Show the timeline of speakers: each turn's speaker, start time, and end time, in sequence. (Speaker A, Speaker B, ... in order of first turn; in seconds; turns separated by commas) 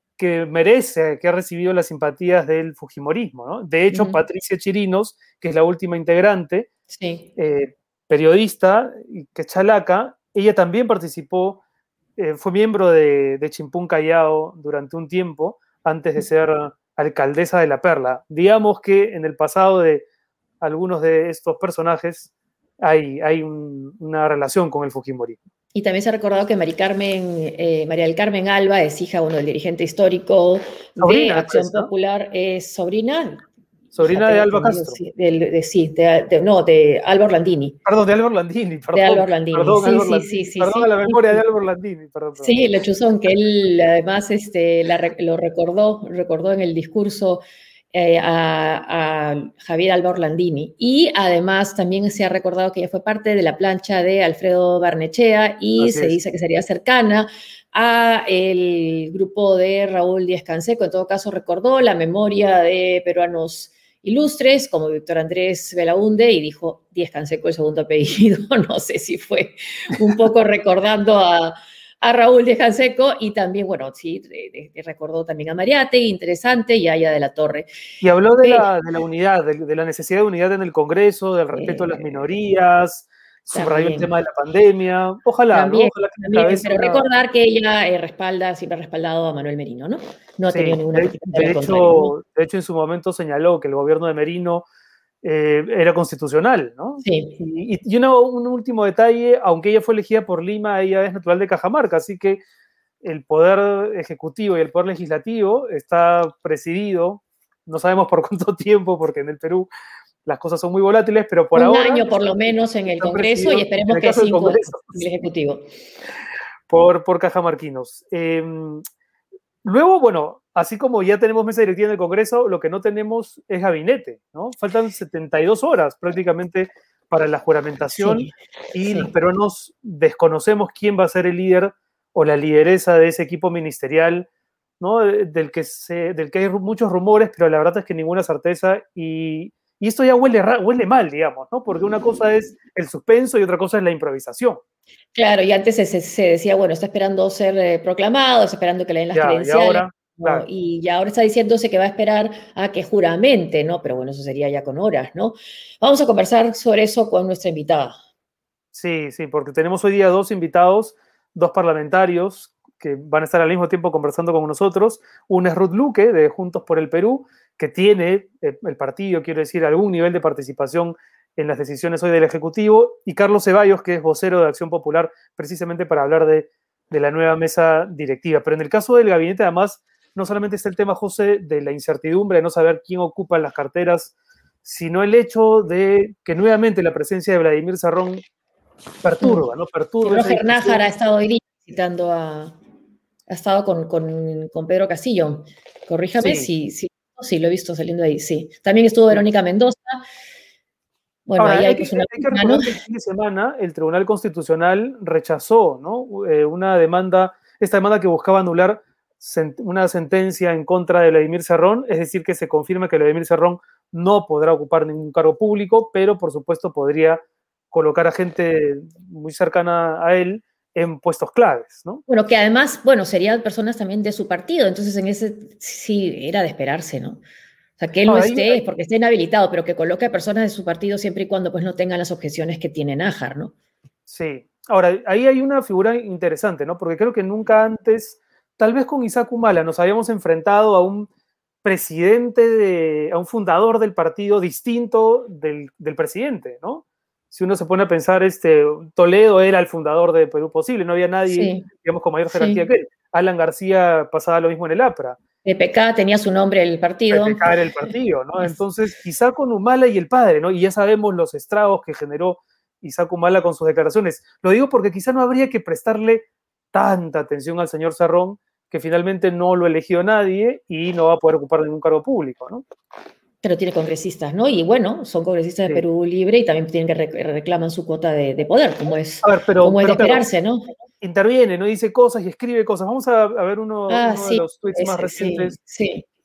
Speaker A: 0.2-6.7, Speaker B: 3.9-4.2, Speaker B: 6.9-7.3, Speaker A: 7.4-11.6, Speaker A: 12.2-20.1, Speaker A: 20.6-22.3, Speaker A: 22.8-25.4, Speaker B: 25.8-33.4, Speaker A: 31.0-31.9, Speaker A: 34.0-35.0, Speaker B: 34.0-37.8, Speaker A: 37.9-42.6, Speaker B: 38.9-41.4, Speaker B: 42.4-77.7, Speaker A: 55.8-56.2, Speaker A: 78.0-87.1, Speaker B: 78.4-78.7, Speaker B: 81.5-82.0, Speaker B: 83.5-84.1, Speaker B: 85.5-92.1, Speaker A: 90.5-94.7, Speaker A: 95.2-102.4, Speaker B: 97.0-97.3, Speaker A: 103.0-109.7, Speaker A: 110.2-112.1, Speaker B: 111.5-115.6, Speaker A: 112.9-114.9, Speaker A: 116.7-118.8, Speaker A: 119.6-134.3, Speaker B: 128.0-128.3, Speaker A: 134.8-144.6, Speaker B: 145.2-158.0, Speaker A: 149.1-150.5, Speaker A: 158.7-184.1, Speaker A: 184.7-188.2, Speaker A: 189.0-190.8, Speaker B: 190.0-192.6, Speaker B: 193.3-200.0, Speaker A: 196.2-196.5, Speaker B: 201.3-202.8, Speaker A: 201.4-222.0, Speaker B: 222.1-227.2, Speaker B: 227.8-233.5, Speaker A: 228.1-228.6, Speaker A: 234.1-241.1, Speaker A: 241.6-255.2, Speaker B: 251.3-251.7, Speaker B: 252.3-252.6, Speaker B: 255.4-257.4, Speaker A: 257.1-272.6, Speaker B: 273.4-280.7, Speaker A: 279.2-280.2, Speaker A: 281.0-285.6, Speaker B: 283.9-286.0